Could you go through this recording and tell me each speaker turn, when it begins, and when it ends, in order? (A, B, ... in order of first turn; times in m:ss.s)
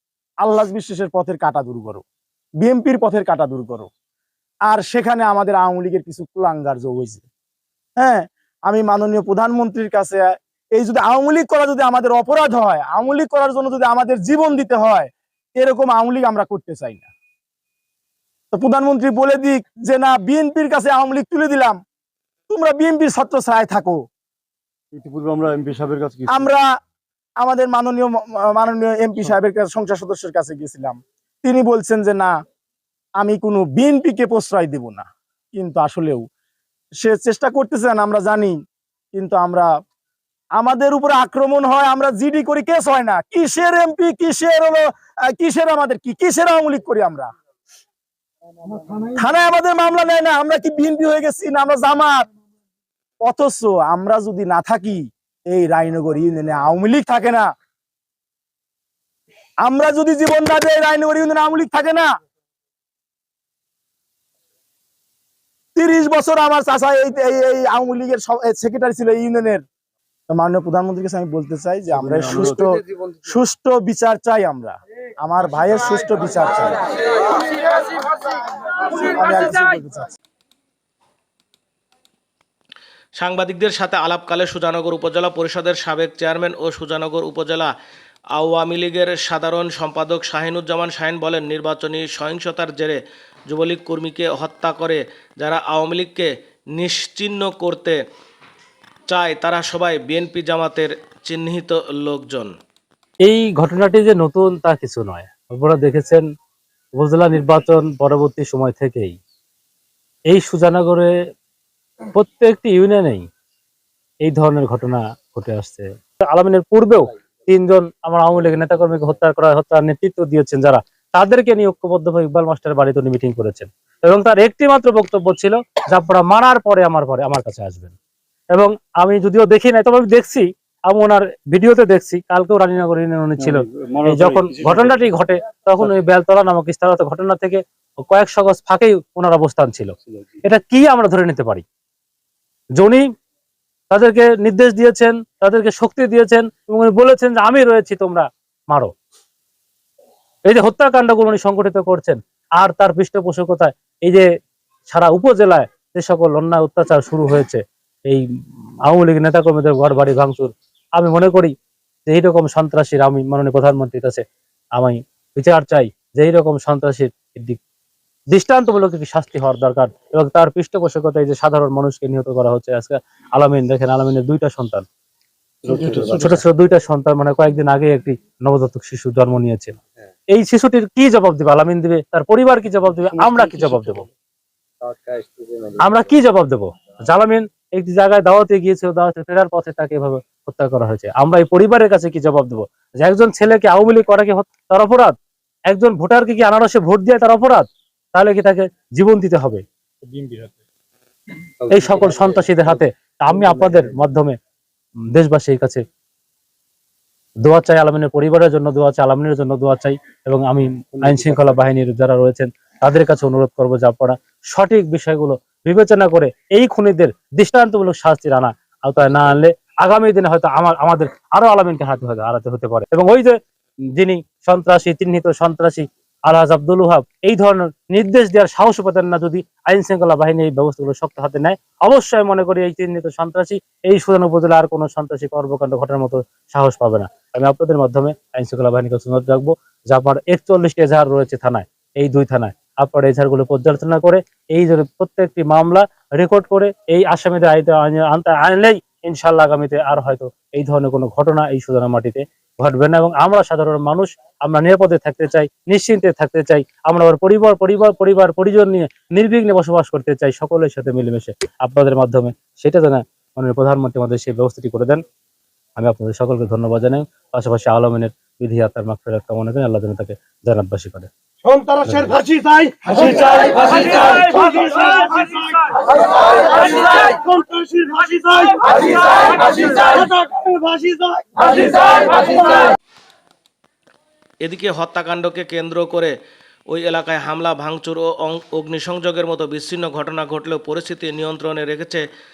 0:00.4-0:02.0 A
0:02.6-0:03.9 A
0:04.7-0:07.2 A
0:08.0-0:17.1 A
0:18.5-0:21.8 A
0:22.5-0:24.0 A
0:24.9-0:26.5 B
0:26.3-0:26.7 A
0:27.4-0:32.3 A
0:33.2-0:36.2 A
0:37.0-0:38.6 A
0:39.1-0:39.7 A
0:40.6-0:47.3 A
0:49.0-0:52.2 A
0:53.2-0:57.5 A
0:59.6-1:02.1 A
1:05.8-1:09.6 A
1:10.3-1:12.7 A
1:11.9-1:12.7 B
1:13.2-1:16.8 A
1:18.8-1:20.1 A
1:23.2-1:27.7 C
1:28.4-1:38.0 C
1:39.1-1:42.5 C
1:43.2-1:46.2 D
1:47.0-1:49.2 D
1:50.3-1:51.1 D
1:52.1-1:53.2 D
1:54.2-2:07.9 D
2:08.5-2:19.9 D
2:13.4-2:15.0 B
2:20.4-2:21.6 D
2:22.8-2:23.1 D
2:23.9-2:28.9 D
2:30.5-2:34.2 D
2:34.9-2:38.2 D
2:38.8-2:41.5 D
2:42.1-2:44.2 D
2:44.8-2:47.6 D
2:48.3-2:54.8 D
2:55.6-2:56.4 B
2:56.1-2:59.8 D
3:00.3-3:04.1 D
3:03.2-3:04.0 B
3:04.8-3:06.0 B
3:05.8-3:15.1 D
3:15.7-3:19.6 D
3:20.1-3:20.5 B
3:21.6-3:22.7 B
3:21.7-3:24.4 D
3:23.4-3:23.9 B
3:25.1-3:25.8 D
3:27.4-3:43.4 D
3:31.0-3:31.6 B
3:44.0-4:25.0 D
4:25.8-4:31.1 D
4:31.8-4:32.2 D
4:32.2-4:33.9 B
4:32.9-4:34.3 E
4:36.5-4:37.8 B
4:36.6-4:42.1 E
4:40.0-4:40.5 B
4:44.4-4:46.1 C
4:46.7-4:52.0 C